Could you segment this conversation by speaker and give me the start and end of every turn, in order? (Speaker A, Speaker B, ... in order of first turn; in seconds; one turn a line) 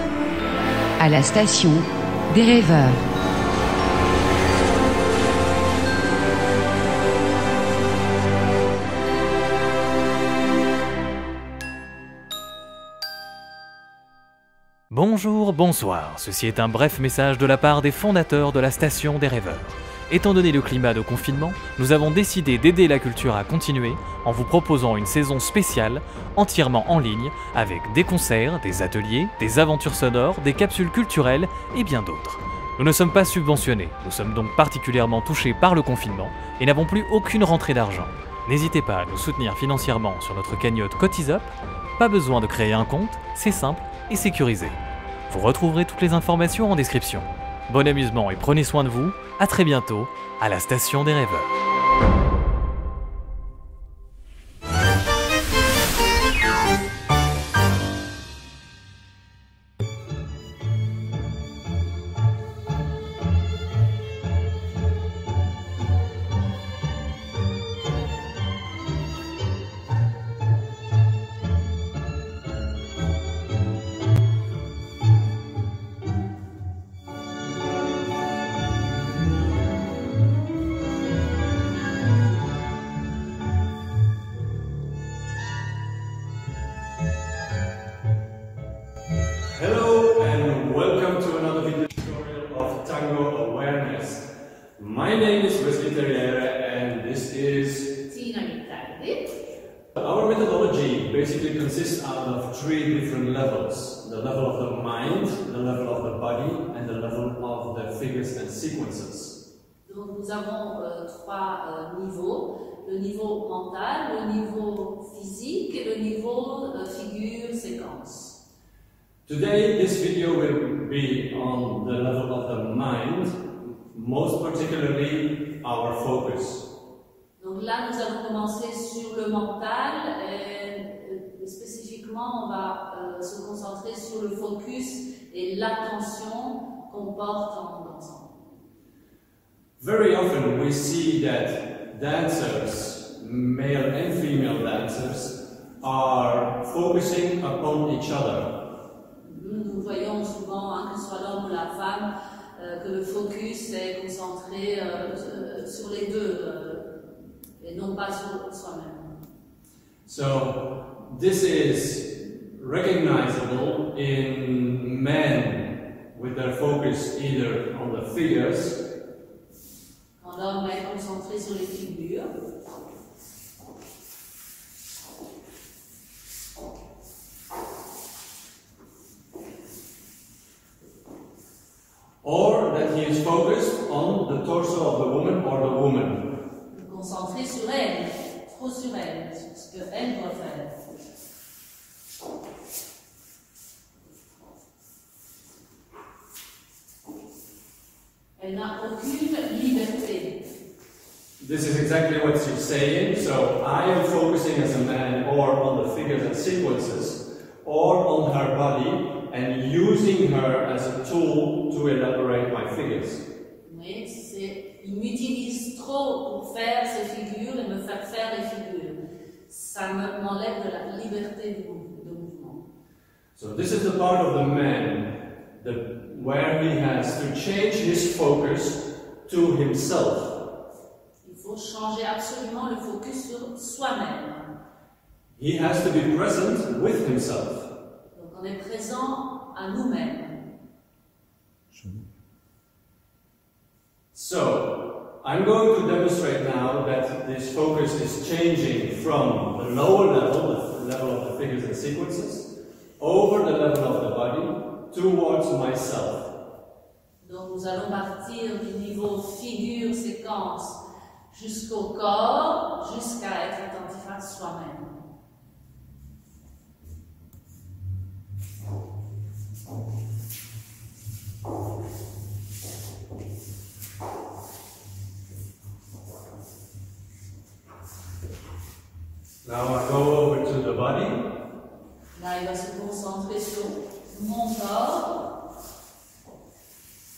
Speaker A: 1.0-3.0
Speaker B: 14.9-44.8
Speaker B: 45.3-51.5
Speaker C: 89.5-97.9
Speaker D: 98.1-99.3
Speaker C: 99.9-109.3
Speaker D: 109.8-118.4
Speaker C: 119.2-126.7
Speaker D: 127.4-138.4
Speaker C: 139.8-148.5
Speaker D: 149.2-156.8
Speaker D: 157.6-159.1
Speaker C: 160.1-168.8
Speaker D: 170.2-172.3
Speaker C: 182.2-186.2
Speaker D: 186.7-190.7
Speaker D: 198.4-200.4
Speaker C: 201.4-213.2
Speaker D: 213.6-222.6
Speaker C: 223.3-230.4
Speaker D: 231.2-234.5
Speaker C: 235.4-237.7
Speaker D: 238.1-240.4
Speaker C: 244.1-256.3
Speaker D: 257.2-265.0
Speaker C: 279.4-281.2
Speaker D: 282.1-285.3